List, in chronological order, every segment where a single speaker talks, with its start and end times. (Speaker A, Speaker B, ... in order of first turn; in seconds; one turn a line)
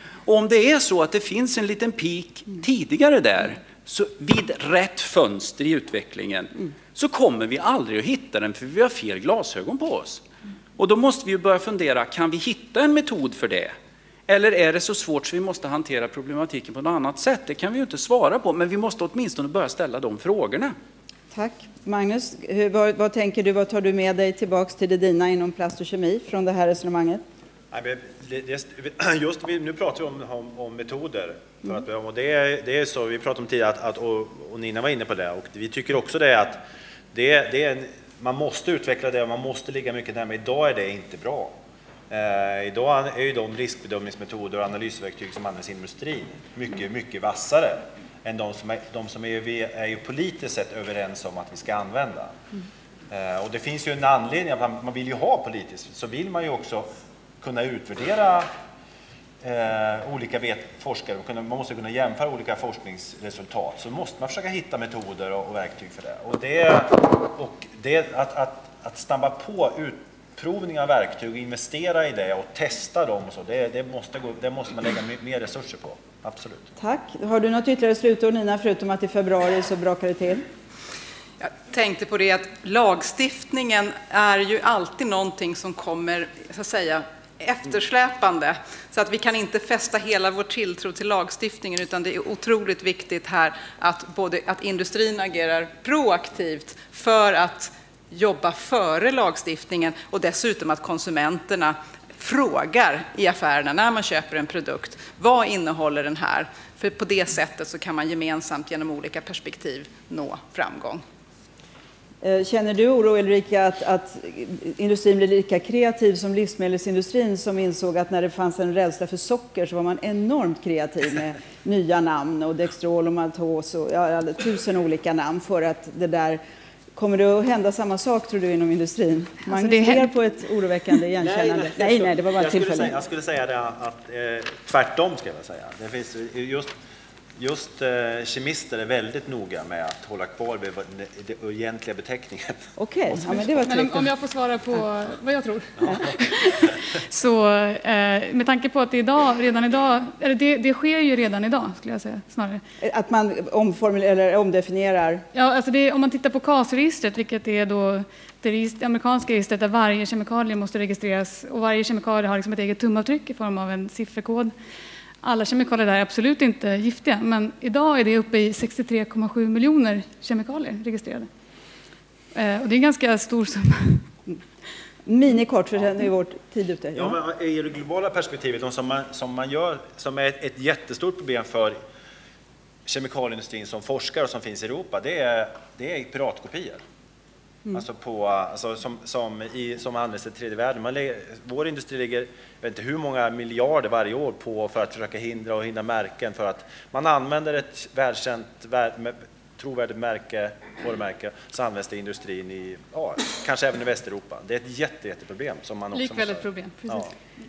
Speaker A: 0.2-10.2
Speaker A: 10.8-13.7
Speaker A: 14.3-20.7
Speaker B: 21.3-27.2
Speaker C: 27.7-41.5
Speaker C: 42.1-52.4
Speaker C: 53.1-56.9
Speaker C: 57.4-58.5
Speaker C: 59.4-76.7
Speaker B: 76.8-80.4
Speaker D: 81.4-111.0
Speaker B: 112.2-126.4
Speaker B: 126.9-132.9
Speaker E: 129.5-130.1
Speaker C: 131.2-136.7
Speaker C: 137.4-143.6
Speaker B: 142.8-144.1
Speaker E: 143.6-152.6
Speaker B: 152.8-155.2
Speaker E: 155.3-164.5
Speaker E: 165.2-171.3
Speaker E: 172.3-174.1
Speaker B: 175.1-177.2
Speaker C: 176.9-181.8
Speaker C: 182.8-186.8
Speaker C: 187.7-207.1
Speaker E: 205.9-207.1